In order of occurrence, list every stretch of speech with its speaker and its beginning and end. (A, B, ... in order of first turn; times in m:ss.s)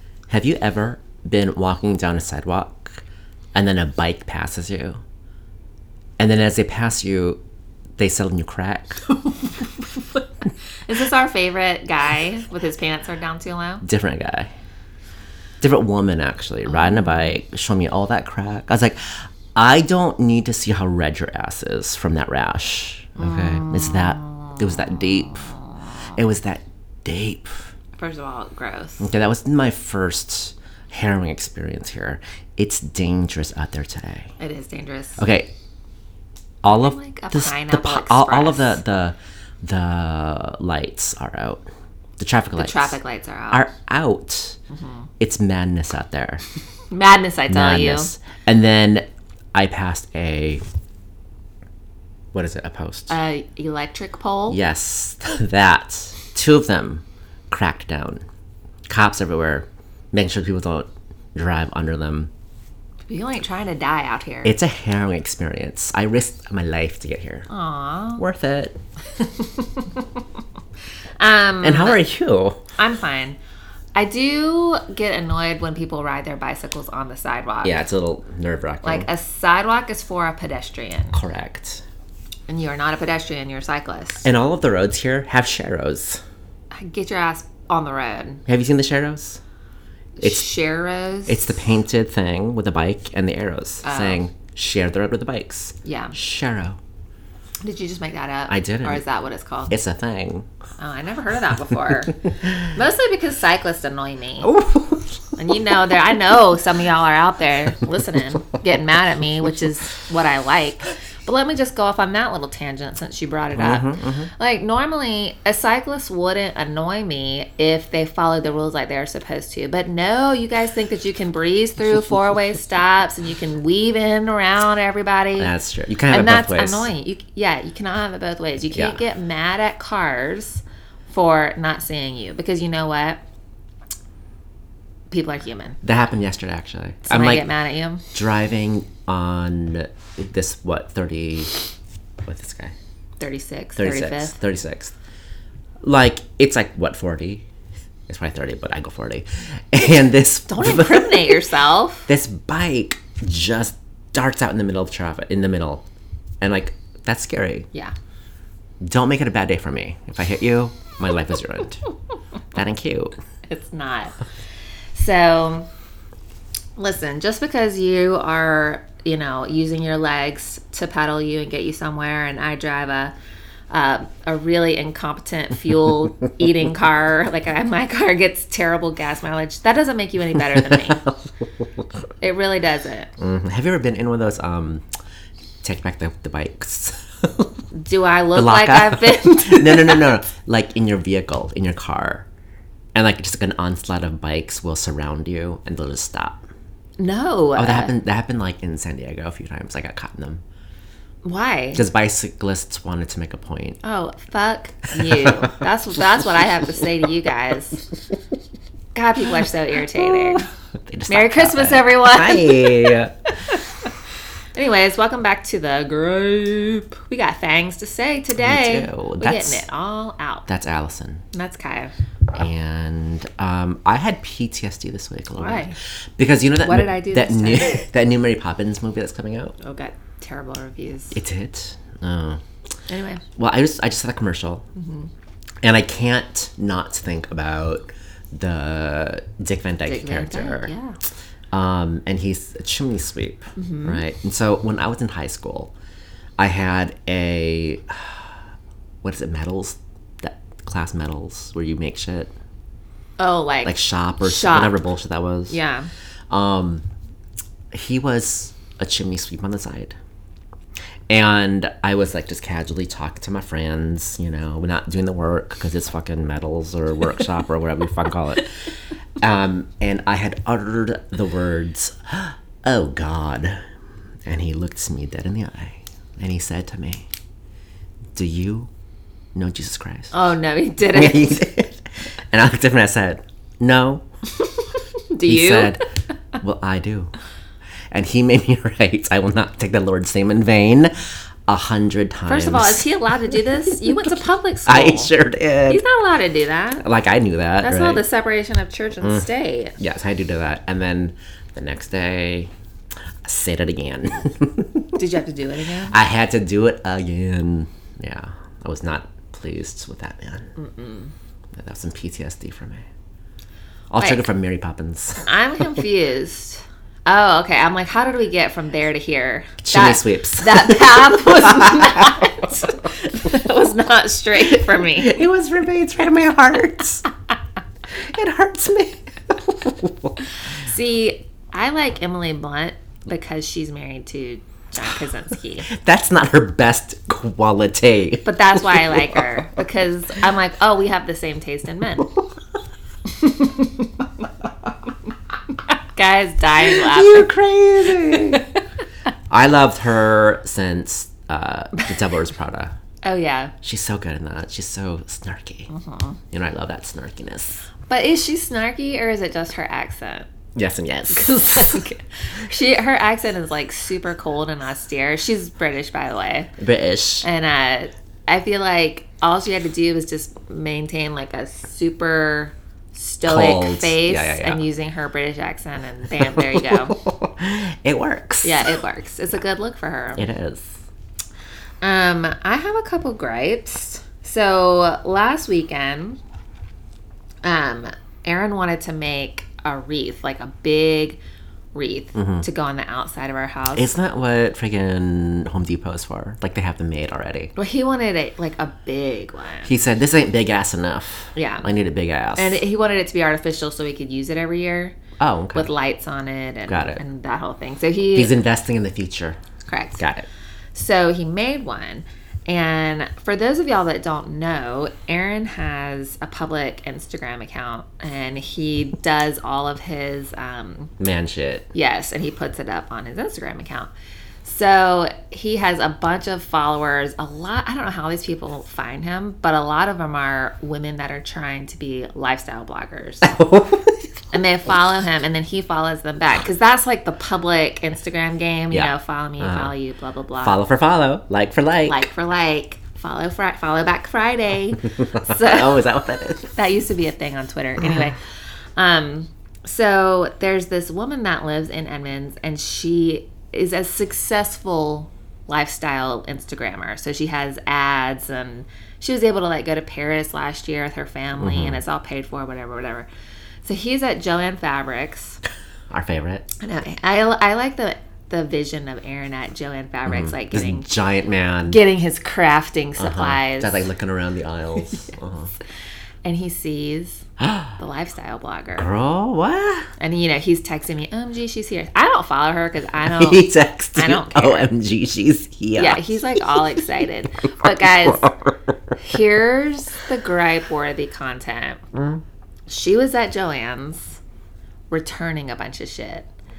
0:00.3-0:03.0 A
0:03.5-0:05.0 A
0:06.2-0:07.4 A
0:08.0-0:09.0 A
0:10.9-0:13.8 B
0:13.8-0:14.5 A
0:15.6-0:25.5 A
0:16.8-0:17.2 B
0:23.2-0:24.6 B
0:26.1-0:27.7 A
0:28.0-0:29.1 B
0:29.0-0:34.3 A
0:34.4-0:35.2 B
0:35.2-0:35.5 A
0:36.6-0:41.6 A
0:36.6-0:38.8 B
0:42.2-0:43.0 A
0:42.6-0:43.7 B
0:43.5-0:44.6 A
0:44.7-0:45.1 B
0:45.2-0:46.4 A
0:46.9-0:48.1 B
0:47.5-0:50.6 A
0:52.3-0:53.1 A
0:53.1-0:54.6 B
0:54.5-0:58.2 A
0:58.9-1:02.3 A
1:03.1-1:04.5 B
1:04.4-1:07.5 A
1:07.5-1:08.2 B
1:08.2-1:08.8 A
1:09.2-1:10.0 B
1:11.2-1:12.0 B
1:11.6-1:12.6 A
1:12.8-1:13.4 B
1:13.9-1:17.8 B
1:17.6-1:19.1 A
1:18.8-1:21.2 B
1:21.1-1:21.8 A
1:22.5-1:24.3 B
1:24.2-1:26.2 A
1:26.7-1:28.4 B
1:28.5-1:29.4 A
1:30.2-1:31.6 B
1:30.2-1:30.5 A
1:31.3-1:36.8 A
1:33.8-1:34.2 B
1:35.8-1:36.1 B
1:37.6-1:39.8 B
1:38.5-1:39.0 A
1:39.7-1:40.5 A
1:40.8-1:44.6 B
1:44.4-1:45.3 A
1:45.4-2:05.5 B
1:53.6-1:54.3 A
2:05.4-2:06.9 A
2:06.1-2:13.2 B
2:08.7-2:09.0 A
2:15.1-2:15.8 B
2:15.8-2:17.5 A
2:17.0-2:18.0 B
2:18.1-2:21.6 A
2:22.2-2:22.7 A
2:23.2-2:24.4 B
2:23.8-2:24.9 A
2:25.8-2:27.4 A
2:28.1-2:31.4 A
2:30.5-2:32.1 B
2:32.1-2:35.8 A
2:36.4-2:37.7 A
2:38.8-2:41.8 A
2:42.5-2:43.1 A
2:43.5-2:44.2 B
2:44.9-2:45.7 B
2:46.8-2:53.1 B
2:53.7-3:01.1 B
3:00.6-3:01.0 A
3:02.2-3:03.1 B
3:03.2-3:04.8 A
3:05.6-3:07.5 A
3:07.7-3:10.1 B
3:08.3-3:12.3 A
3:12.9-3:16.5 A
3:17.0-3:17.9 B
3:17.6-3:20.4 A
3:21.2-3:21.8 B
3:21.7-3:23.8 A
3:23.8-3:27.8 B
3:25.0-3:25.6 A
3:28.9-3:30.5 B
3:30.0-3:33.1 A
3:31.1-3:33.9 B
3:34.5-3:40.5 B
3:38.4-3:39.6 A
3:40.5-3:41.2 A
3:41.3-3:41.9 B
3:42.3-3:49.6 A
3:45.4-3:45.8 B
3:46.6-3:47.8 B
3:49.6-3:51.2 B
3:51.1-3:52.4 A
3:52.9-3:53.2 B
3:53.4-3:54.6 A
3:54.8-3:55.1 B
3:55.6-4:00.7 A
3:59.8-4:01.0 B
4:01.5-4:05.7 A
4:03.6-4:04.0 B
4:06.4-4:08.3 A
4:09.0-4:12.3 A
4:13.2-4:14.8 B
4:13.6-4:15.6 A
4:15.5-4:15.9 B
4:16.3-4:16.8 A
4:17.7-4:20.0 A
4:21.1-4:28.5 A
4:29.2-4:33.6 A
4:34.2-4:37.1 A
4:38.1-4:38.7 A
4:39.3-4:40.1 A
4:40.1-4:41.4 B
4:40.9-4:44.0 A
4:45.1-4:45.8 B
4:45.2-4:45.8 A
4:46.4-4:47.1 A
4:47.9-4:50.9 A
4:51.5-4:52.9 A
4:52.3-4:55.1 B
4:53.7-4:54.0 A
4:54.6-4:55.8 A
4:55.7-4:56.8 B
4:56.8-4:58.0 A
4:57.6-4:59.8 B
4:59.0-4:59.3 A
4:59.8-5:02.5 A
5:03.2-5:05.0 A
5:04.9-5:06.0 B
5:05.9-5:10.5 A
5:10.6-5:11.1 B
5:11.5-5:12.8 A
5:13.9-5:15.3 A
5:14.0-5:14.2 B
5:15.3-5:25.2 B
5:19.6-5:22.5 A
5:24.8-5:27.0 A
5:27.9-5:30.2 A
5:30.5-5:35.7 B
5:35.7-5:39.5 A
5:38.2-5:42.1 B
5:43.1-5:44.1 B
5:45.5-5:47.3 B
5:46.6-5:48.5 A
5:48.1-5:48.4 B
5:49.3-5:52.8 A
5:53.0-5:53.5 B
5:53.6-5:55.7 A
5:55.7-5:56.2 B
5:56.3-5:57.6 A
5:57.9-6:00.3 B
6:00.5-6:01.9 A
6:01.1-6:06.5 B
6:06.6-6:07.2 A
6:07.2-6:17.0 B
6:13.2-6:14.6 A
6:16.2-6:18.7 A
6:18.4-6:20.3 B
6:20.2-6:20.7 A
6:21.8-6:26.2 B
6:27.4-6:31.2 B
6:31.7-6:33.9 B
6:32.1-6:32.4 A
6:33.7-6:37.5 A
6:37.6-6:39.7 B
6:39.6-6:42.6 A
6:41.3-6:41.7 B
6:42.4-6:45.0 B
6:45.2-6:45.7 A
6:45.5-6:48.3 B
6:46.7-6:47.0 A
6:48.1-6:49.4 A
6:49.6-6:50.0 B
6:50.0-6:50.3 A
6:50.7-7:00.9 B
7:01.0-7:01.7 A
7:01.7-7:03.9 B
7:04.4-7:13.4 B
7:13.2-7:14.0 A
7:14.3-7:20.6 B
7:18.7-7:19.7 A
7:20.4-7:22.1 A
7:21.9-7:25.8 B
7:25.0-7:26.5 A
7:26.4-7:28.2 B
7:28.8-7:43.1 B
7:41.4-7:41.8 A
7:43.6-7:45.4 B
7:45.9-7:46.4 A
7:46.6-7:50.9 B
7:50.0-7:51.8 A
7:51.6-7:53.9 B
7:53.0-7:55.5 A
7:56.2-7:58.9 B
7:57.4-7:57.7 A
7:58.8-7:59.9 A
8:00.0-8:04.7 B
8:03.0-8:06.4 A
8:05.8-8:08.3 B
8:08.1-8:08.5 A
8:09.0-8:11.8 B
8:11.9-8:12.2 A
8:12.7-8:14.2 B
8:14.9-8:16.3 B